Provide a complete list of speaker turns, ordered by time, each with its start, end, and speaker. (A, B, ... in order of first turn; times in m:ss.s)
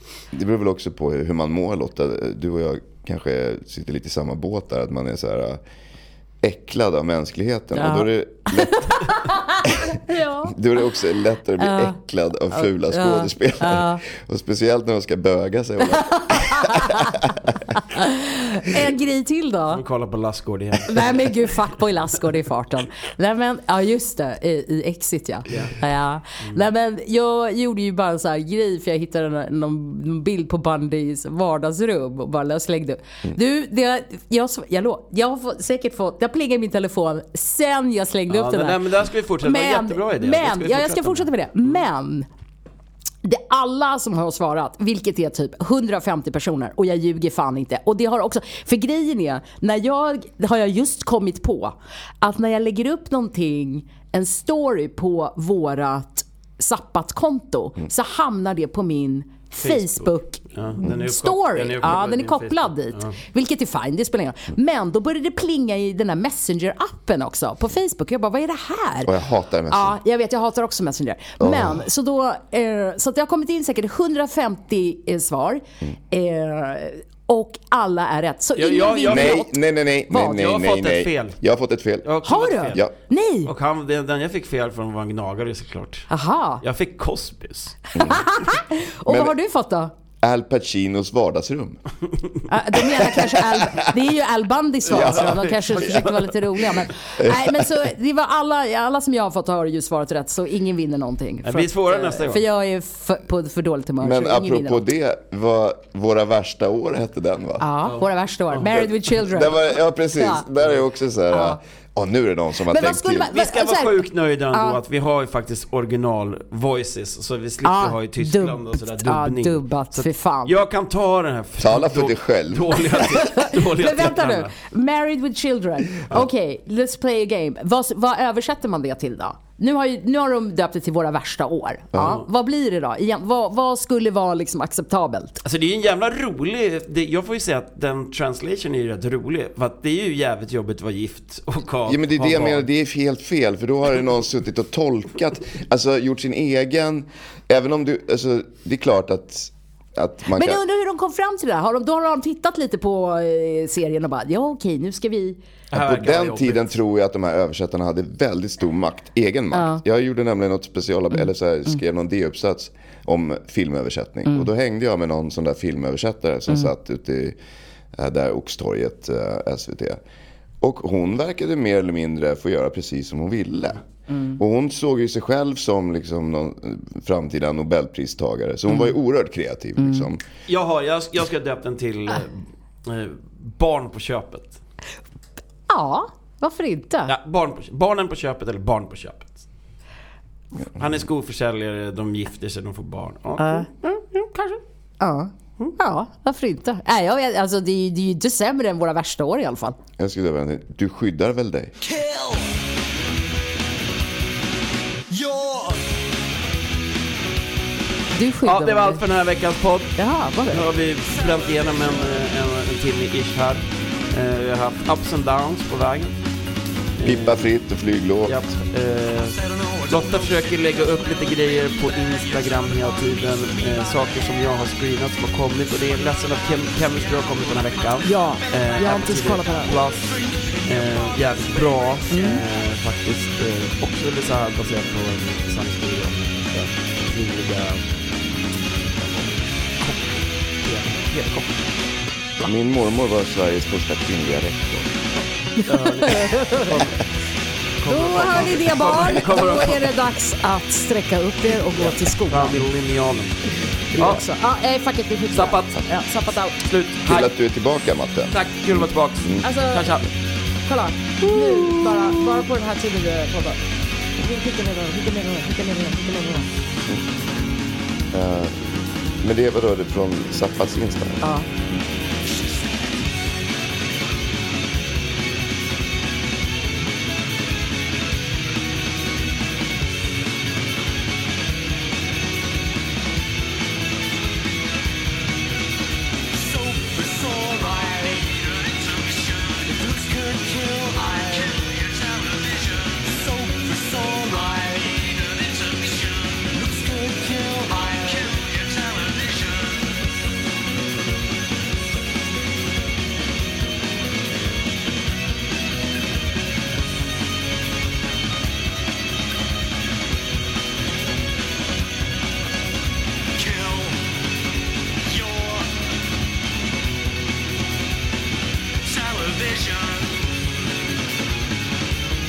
0:00.3-0:05.6 A
0:06.4-0:10.0 A
0:07.7-0:10.6 B
0:10.5-0:17.6 A
0:11.6-0:12.0 B
0:12.5-0:14.0 B
0:16.0-0:19.8 B
0:19.7-0:21.3 C
0:20.9-0:38.8 B
0:25.5-0:25.7 C
0:38.3-0:41.3 C
0:39.4-0:42.3 B
0:43.2-1:09.1 B
0:59.6-1:03.2 C
1:09.0-1:10.0 A
1:09.7-1:19.6 B
1:11.4-1:11.8 A
1:18.6-1:19.4 C
1:19.0-1:22.1 A
1:20.1-1:21.4 C
1:22.0-1:22.9 C
1:22.2-1:23.5 B
1:23.4-1:26.1 C
1:26.1-1:26.6 B
1:26.6-1:28.1 C
1:27.9-1:29.9 B
1:29.1-1:29.3 A
1:30.2-1:31.8 A
1:32.5-1:44.8 B
1:32.7-1:33.9 A
1:34.9-1:36.2 C
1:34.9-1:36.1 A
1:37.2-1:37.7 A
1:41.4-1:42.4 C
1:44.0-1:47.6 A
1:47.6-1:50.4 B
1:49.2-1:53.3 A
1:51.3-1:51.6 B
1:52.7-1:54.8 B
1:53.3-2:04.5 C
1:57.6-2:00.5 B
2:01.6-2:02.9 A
2:03.0-2:15.4 B
2:15.4-2:22.7 C
2:21.9-2:30.6 A
2:30.3-2:35.4 B
2:35.7-2:36.7 C
2:35.7-2:47.4 A
2:39.5-2:39.8 B
2:47.9-2:50.0 A
2:50.6-2:53.8 A
2:54.1-2:54.4 B
2:54.4-3:00.2 A
2:59.8-3:00.0 B
3:00.5-3:04.6 C
3:05.7-3:07.1 B
3:07.1-3:09.4 C
3:10.6-3:13.7 C
3:13.4-3:19.8 B
3:20.0-3:21.7 A
3:21.9-3:22.4 D
3:25.1-3:25.7 D
3:28.1-3:29.0 B
3:28.4-3:36.2 C
3:30.0-3:30.7 B
3:37.0-3:37.4 C
3:37.0-3:38.4 A
3:38.2-4:01.6 C
3:48.0-3:49.8 B
3:52.1-3:52.4 B
4:02.4-4:04.9 A
4:05.6-4:06.8 B
4:05.6-4:06.9 C
4:07.8-4:09.9 C
4:07.9-4:12.6 B
4:11.7-4:13.4 C
4:13.9-4:14.2 C
4:13.9-4:16.6 B
4:15.3-4:15.8 C
4:16.6-4:17.3 C
4:17.0-4:19.4 A
4:18.3-4:20.1 C
4:19.4-4:19.8 B
4:20.6-4:23.6 B
4:24.2-4:26.5 B
4:28.1-4:28.7 A
4:29.2-4:31.3 A
4:46.3-4:59.7 D
5:13.4-5:14.0 D
5:15.1-5:15.6 D
5:18.9-5:20.1 D